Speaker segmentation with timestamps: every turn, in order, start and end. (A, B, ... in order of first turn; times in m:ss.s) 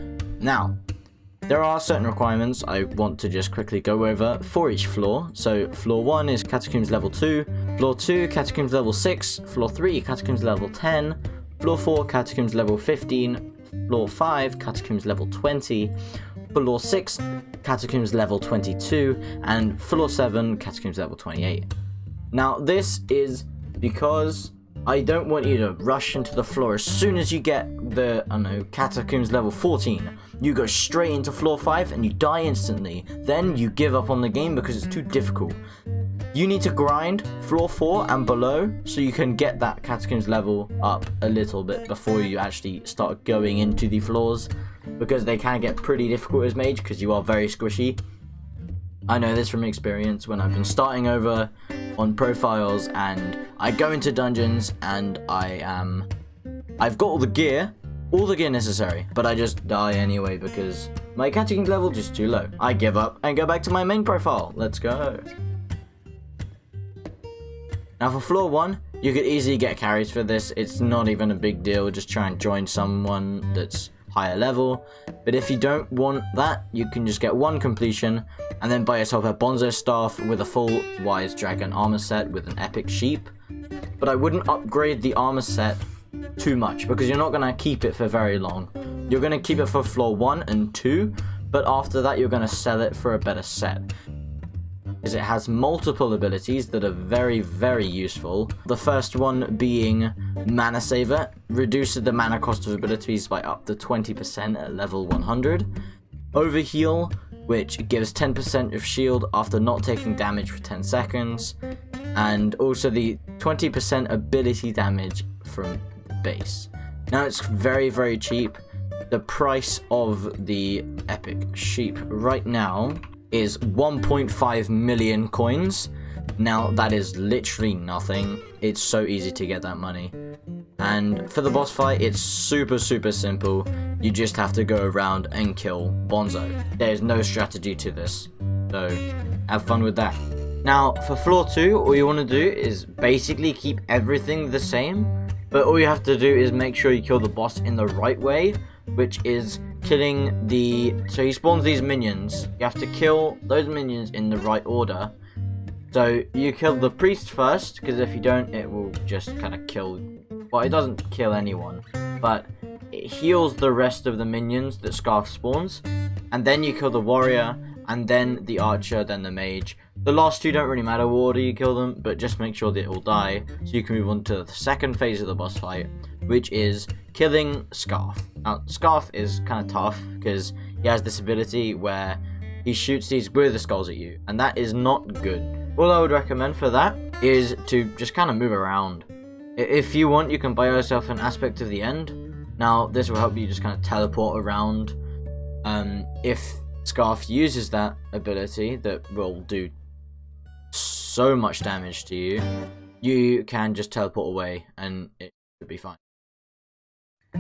0:00.4-0:00.8 A
0:01.5-0:16.0 A
0:16.5-0:21.7 A
0:22.3-0:35.6 A
0:36.3-0:48.0 A
0:49.1-0:56.1 A
0:56.8-1:05.3 A
1:08.0-1:23.3 A
1:24.0-1:25.8 A
1:26.4-1:33.9 A
1:35.0-1:45.7 A
1:46.4-1:51.6 A
1:52.2-1:58.6 A
1:59.1-2:10.1 A
2:10.8-2:35.2 A
2:35.9-3:15.0 A
3:15.6-3:19.7 A
3:20.7-3:22.4 A
3:23.0-3:26.0 A